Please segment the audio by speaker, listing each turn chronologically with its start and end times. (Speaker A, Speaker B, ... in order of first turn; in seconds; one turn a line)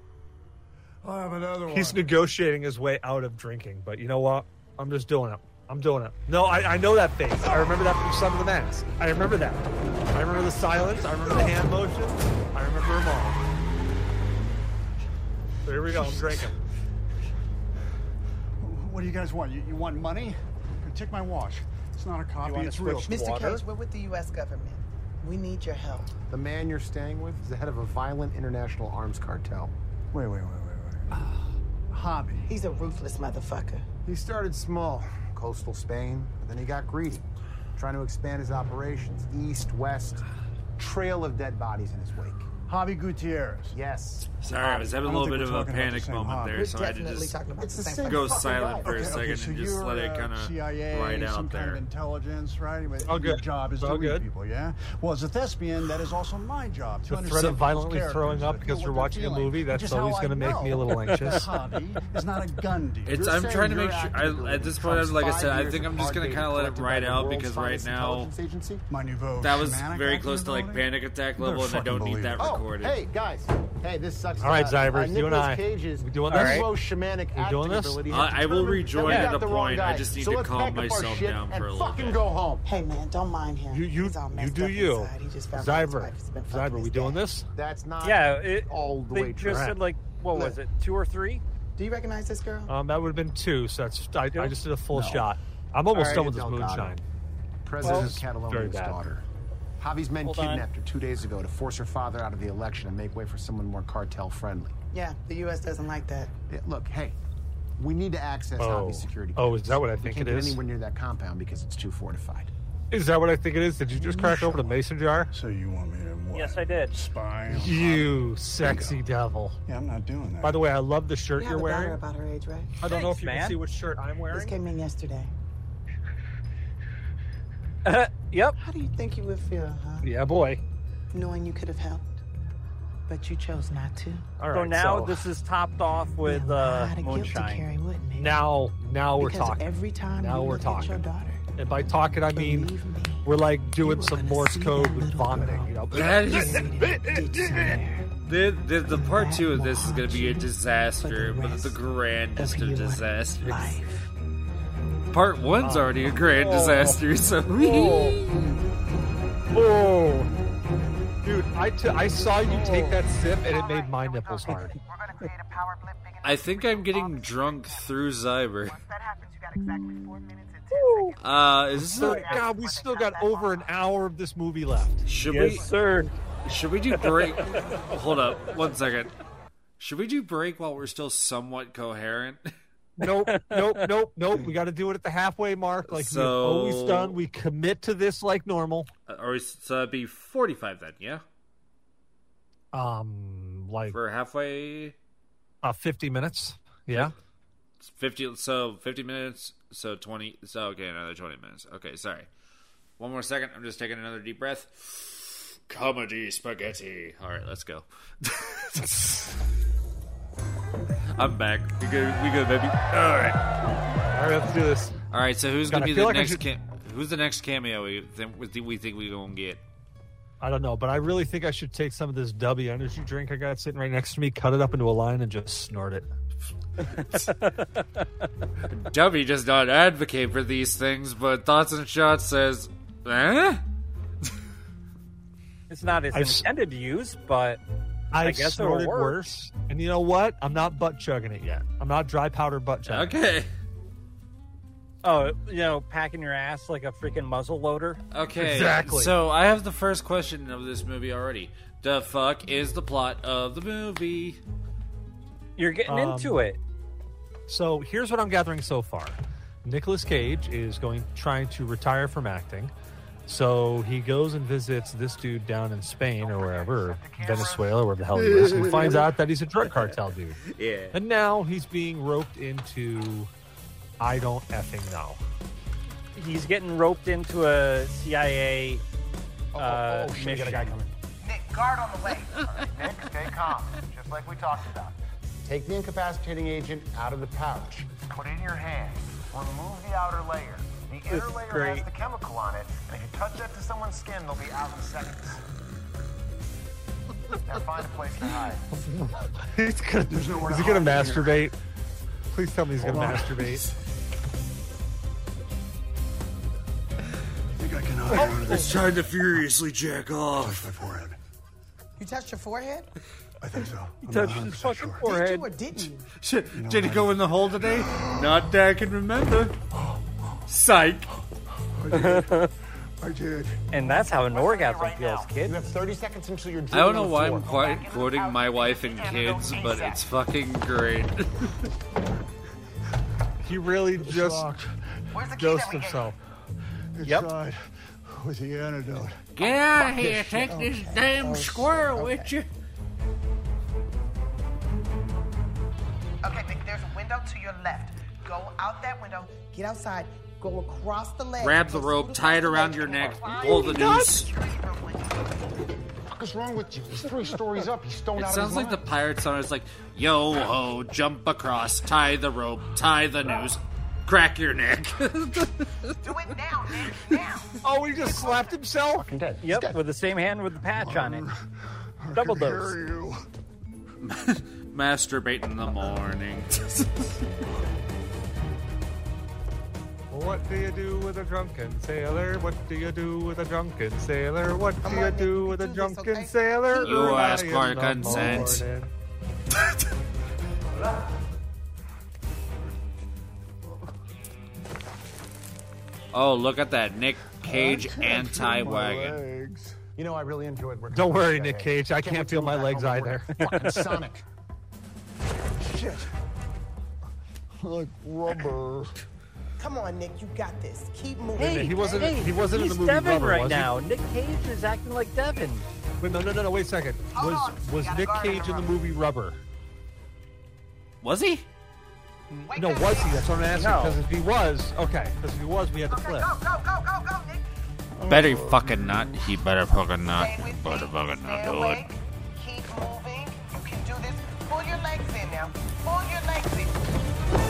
Speaker A: 1.0-2.1
Speaker B: 1.7-13.4
Speaker A: 7.4-7.8
Speaker B: 15.6-16.6
Speaker A: 15.9-16.4
Speaker A: 18.6-23.3
Speaker C: 22.4-23.6
Speaker D: 23.0-26.1
Speaker E: 26.3-29.7
Speaker A: 30.1-31.2
Speaker A: 31.9-32.5
Speaker D: 32.5-33.9
Speaker E: 34.0-40.2
Speaker E: 40.8-42.5
Speaker A: 42.6-43.8
Speaker E: 43.7-44.3
Speaker F: 44.4-47.5
Speaker A: 44.9-46.7
Speaker D: 46.5-48.6
Speaker E: 47.6-49.0
Speaker A: 47.8-63.6
Speaker F: 48.0-51.8
Speaker B: 53.0-54.2
Speaker B: 57.1-61.5
Speaker C: 60.5-61.4
Speaker F: 63.0-68.3
Speaker E: 63.2-68.8
Speaker A: 68.9-72.5
Speaker F: 69.4-73.0
Speaker E: 72.4-82.7
Speaker B: 74.4-76.7
Speaker C: 76.3-76.7
Speaker B: 77.3-78.0
Speaker F: 78.1-82.2
Speaker C: 79.0-79.3
Speaker D: 82.6-87.3
Speaker B: 83.7-87.5
Speaker E: 87.5-89.6
Speaker C: 88.0-91.4
Speaker B: 89.4-89.8
Speaker D: 91.8-92.7
Speaker B: 92.7-97.0
Speaker C: 94.3-94.6
Speaker E: 95.9-97.0
Speaker C: 95.9-96.3
Speaker E: 97.6-99.2
Speaker B: 97.8-99.0
Speaker C: 97.8-98.1
Speaker E: 99.8-104.8
Speaker C: 100.2-100.7
Speaker D: 104.9-106.3
Speaker E: 106.5-107.2
Speaker E: 107.8-112.5
Speaker B: 108.6-110.6
Speaker B: 112.9-115.3
Speaker A: 114.0-114.7
Speaker A: 115.3-119.0
Speaker C: 116.3-116.9
Speaker B: 117.5-119.6
Speaker A: 119.7-120.6
Speaker B: 120.4-122.0
Speaker D: 121.3-122.8
Speaker B: 122.8-124.6
Speaker C: 122.8-123.6
Speaker D: 124.3-125.3
Speaker C: 127.8-128.6
Speaker D: 128.6-130.1
Speaker B: 130.0-130.6
Speaker D: 131.1-132.0
Speaker D: 133.1-134.2
Speaker B: 134.4-135.3
Speaker C: 134.5-137.7
Speaker D: 136.2-138.4
Speaker B: 138.2-141.0
Speaker D: 139.2-141.4
Speaker B: 141.6-142.7
Speaker D: 142.2-148.1
Speaker B: 143.2-146.8
Speaker F: 145.9-147.7
Speaker F: 148.2-153.6
Speaker D: 148.8-151.8
Speaker D: 152.3-154.1
Speaker F: 155.1-158.6
Speaker B: 155.6-156.8
Speaker C: 156.5-156.9
Speaker C: 157.6-158.1
Speaker B: 159.5-160.3
Speaker B: 161.2-164.7
Speaker C: 162.5-163.0
Speaker D: 163.3-168.1
Speaker F: 166.2-168.8
Speaker D: 168.7-173.8
Speaker C: 170.7-171.2
Speaker F: 171.2-172.4
Speaker B: 171.8-175.0
Speaker C: 172.1-172.4
Speaker F: 175.1-175.6
Speaker C: 175.3-176.1
Speaker F: 176.4-179.1
Speaker C: 177.0-177.7
Speaker F: 179.8-182.5
Speaker B: 183.0-188.9
Speaker C: 183.0-183.9
Speaker F: 185.9-187.2
Speaker F: 189.1-191.2
Speaker B: 192.7-194.0
Speaker F: 193.9-194.9
Speaker B: 195.6-197.1
Speaker F: 197.8-202.3
Speaker F: 203.0-209.2
Speaker F: 211.1-213.4
Speaker B: 214.1-214.9
Speaker F: 215.1-219.6
Speaker B: 215.7-216.4
Speaker B: 220.4-226.1
Speaker C: 226.8-228.1
Speaker F: 228.7-233.6
Speaker C: 235.7-237.6
Speaker B: 236.1-236.4
Speaker B: 238.1-243.1
Speaker C: 238.2-239.2
Speaker F: 242.8-243.5
Speaker C: 245.0-248.0
Speaker F: 248.1-254.4
Speaker B: 248.3-249.1
Speaker C: 255.6-256.6
Speaker B: 255.9-256.4
Speaker B: 257.5-262.7
Speaker B: 263.3-270.4
Speaker E: 266.2-267.9
Speaker F: 270.4-271.0
Speaker B: 270.9-273.3
Speaker B: 274.0-275.2
Speaker C: 276.1-278.8
Speaker E: 279.5-280.9
Speaker C: 279.6-280.8
Speaker D: 281.2-282.4
Speaker E: 282.4-295.4
Speaker C: 291.1-291.9
Speaker E: 297.4-298.7
Speaker B: 299.0-301.6
Speaker A: 300.1-301.4
Speaker B: 302.3-303.6
Speaker A: 302.8-303.7
Speaker A: 307.6-309.1
Speaker F: 308.1-310.7
Speaker A: 310.4-311.2
Speaker D: 312.0-312.9
Speaker A: 313.4-315.1
Speaker C: 314.0-315.5
Speaker D: 315.0-316.1
Speaker F: 316.2-319.6
Speaker A: 316.5-318.2
Speaker A: 319.7-320.0
Speaker F: 320.5-321.1
Speaker A: 321.7-322.5
Speaker C: 321.9-322.5
Speaker A: 323.0-324.1
Speaker C: 323.7-325.6
Speaker D: 324.4-325.0
Speaker E: 324.4-327.8
Speaker F: 326.7-331.7
Speaker D: 327.3-330.1
Speaker B: 333.4-334.5
Speaker A: 334.0-335.2
Speaker D: 335.1-336.1
Speaker B: 335.4-336.1
Speaker A: 336.9-339.2
Speaker F: 339.4-342.5
Speaker D: 339.4-342.3
Speaker D: 346.2-355.1
Speaker F: 351.4-354.3
Speaker B: 353.6-354.0
Speaker E: 356.1-358.8
Speaker F: 358.1-365.9
Speaker D: 366.0-368.6
Speaker B: 367.6-369.1
Speaker E: 368.9-369.8
Speaker C: 369.4-371.2
Speaker A: 370.7-371.4
Speaker A: 372.0-373.2
Speaker C: 372.1-372.7
Speaker F: 374.0-377.1
Speaker B: 380.1-388.9
Speaker D: 384.8-386.9
Speaker F: 386.8-388.6
Speaker F: 396.1-399.2
Speaker A: 397.4-399.8
Speaker E: 400.0-404.2
Speaker B: 400.9-403.5
Speaker C: 403.4-403.9
Speaker A: 405.6-406.1
Speaker A: 407.6-409.0
Speaker D: 409.6-412.2
Speaker B: 411.4-413.7
Speaker C: 411.4-415.7
Speaker B: 416.0-419.4
Speaker D: 417.1-418.8
Speaker F: 421.0-421.4
Speaker D: 422.4-423.4
Speaker B: 422.5-426.3
Speaker C: 423.5-424.0
Speaker D: 425.9-427.4
Speaker A: 428.0-429.2
Speaker F: 428.1-431.9
Speaker D: 430.1-436.8